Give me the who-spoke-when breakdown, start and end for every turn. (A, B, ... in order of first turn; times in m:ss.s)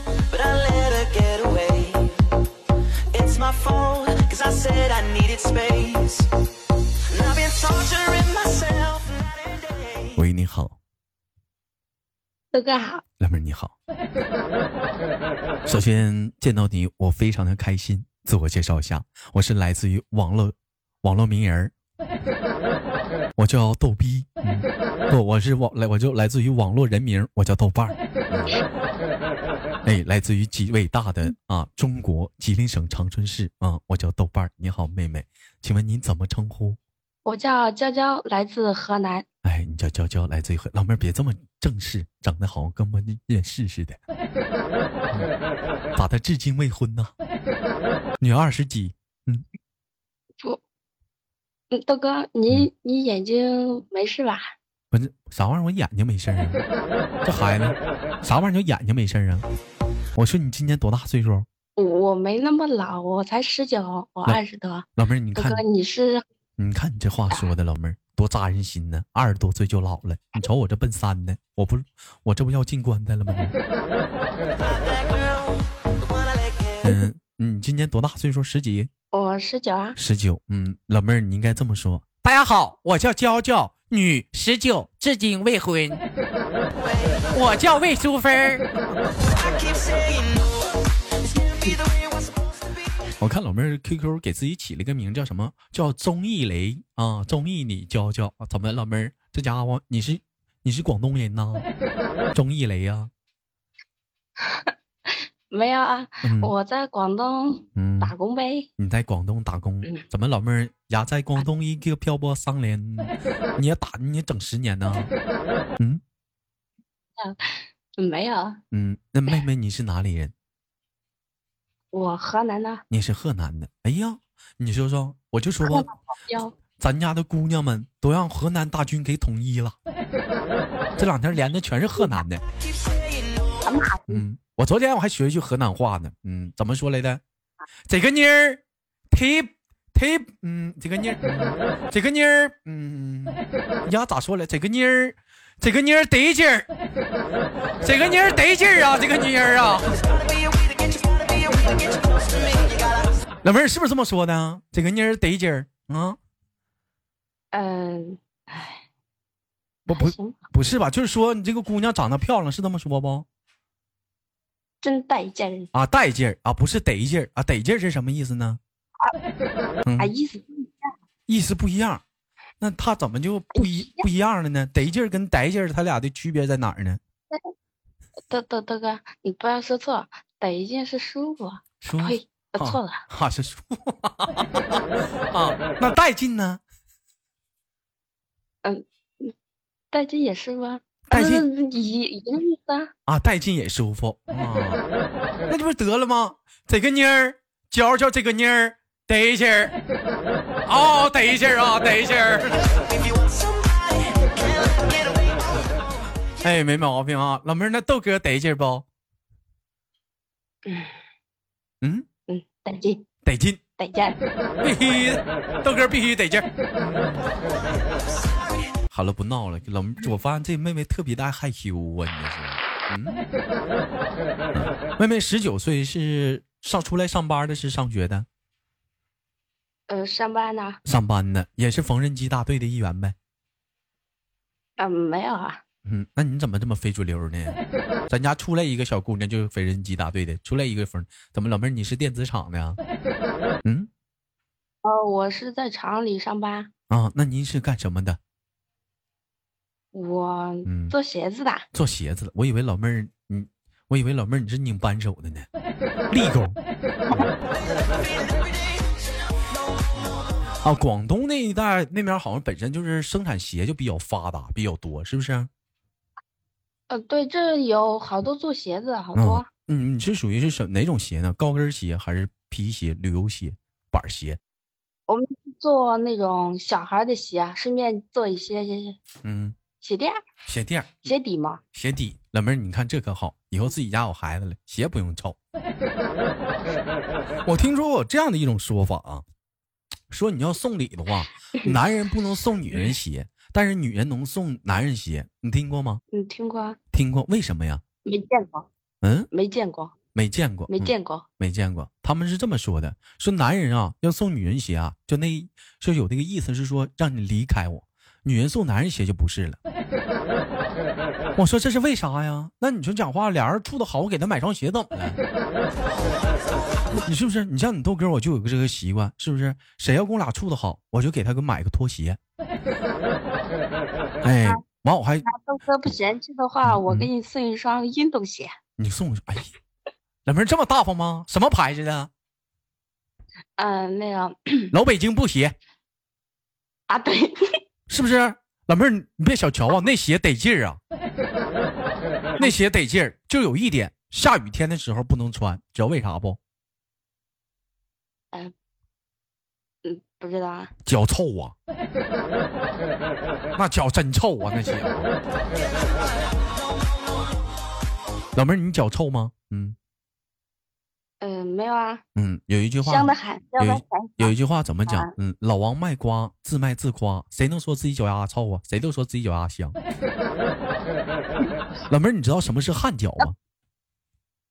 0:00.1-0:02.2 A
0:03.1-0:06.3 A
0:07.1-0:10.2 A
0:10.2-0:10.8 B
0:12.5-0:13.0 C
0:13.2-0:13.7 B
0:15.6-0:21.7 B
0:23.4-0:28.6 B
0:29.8-0:36.8 B
0:37.2-0:39.2 C
0:39.4-0:44.0 B
0:45.9-0:47.1 B
0:48.2-0:49.4 B
0:51.7-0:54.5 C
0:54.9-0:56.6 B
0:57.2-0:59.4 B
1:00.1-1:01.5 B
1:01.8-1:06.2 C
1:05.0-1:05.6 B
1:06.6-1:13.6 B
1:14.6-1:16.9 A
1:16.8-1:18.9 B
1:19.1-1:20.0 C
1:20.0-1:26.0 B
1:27.3-1:28.7 B
1:29.2-1:32.7 A
1:33.2-1:41.7 B
1:42.3-1:43.1 B
1:44.4-1:48.7 C
1:46.2-1:46.5 B
1:47.8-1:48.1 B
1:48.8-1:55.1 B
1:57.2-1:58.6 C
1:58.7-2:00.3 B
2:01.9-2:02.8 C
2:02.9-2:05.9 B
2:05.6-2:06.5 C
2:06.8-2:09.8 B
2:11.0-2:12.4 B
2:12.6-2:13.6 A
2:13.6-2:14.2 C
2:14.1-2:17.2 B
2:17.8-2:26.7 B
2:27.8-2:30.0 B
2:29.9-2:33.0 A
2:33.4-2:36.2 B
2:37.5-2:38.8 C
2:39.9-2:43.2 B
2:39.9-2:40.4 C
2:44.8-2:45.7 C
2:45.7-2:48.6 B
2:49.8-2:50.1 B
2:50.0-2:50.9 C
2:51.3-2:52.0 B
2:52.6-2:57.0 B
2:53.5-2:54.0 C
2:58.3-3:03.0 C
3:01.8-3:06.6 B
3:08.6-3:09.3 C
3:09.9-3:12.9 C
3:11.1-3:11.4 B
3:13.1-3:14.8 B
3:15.5-3:19.7 B
3:20.6-3:22.6 B
3:22.8-3:25.6 A
3:26.4-3:28.8 B
3:30.6-3:30.9 C
3:31.8-3:32.1 B
3:32.3-3:33.0 C
3:33.2-3:33.6 B
3:33.8-3:34.2 C
3:34.6-3:37.3 B
3:38.9-3:43.2 B
3:44.5-3:48.2 B
3:49.9-3:50.8 C
3:50.8-3:53.1 B
3:54.8-3:55.6 C
3:55.8-4:02.8 B
4:03.6-4:03.9 B
4:04.8-4:06.7 C
4:06.9-4:08.2 B
4:09.9-4:11.7 C
4:10.6-4:10.9 B
4:11.7-4:15.5 B
4:16.1-4:16.6 B
4:17.9-4:18.5 A
4:20.6-4:25.5 B
4:26.9-4:29.5 C
4:29.1-4:34.4 B
4:35.1-4:39.0 C
4:39.2-4:39.6 B
4:39.8-4:40.2 C
4:40.5-4:41.0 B
4:41.0-4:41.6 C
4:41.7-4:45.4 B
4:47.4-4:49.2 B
4:50.1-4:56.0 B
4:56.1-4:56.8 C
4:56.9-4:57.8 B
4:58.0-4:58.7 C
4:59.0-4:59.3 B
4:59.3-4:59.9 C
5:00.1-5:09.6 B
5:00.7-5:01.2 C
5:11.4-5:15.2 B
5:17.0-5:22.2 B
5:24.2-5:25.2 B
5:25.2-5:28.5 C
5:26.6-5:27.1 B
5:28.8-5:29.5 B
5:30.2-5:32.1 B
5:33.6-5:34.7 C
5:34.7-5:35.5 B
5:36.9-5:37.6 C
5:37.9-5:40.8 B
5:42.4-5:46.4 B
5:49.8-5:50.7 C
5:50.8-5:51.5 B
5:53.6-5:55.1 B
5:58.3-5:59.8 B
6:01.2-6:02.0 C
6:02.1-6:09.8 B
6:02.8-6:04.3 C
6:04.9-6:05.1 C
6:11.9-6:13.3 B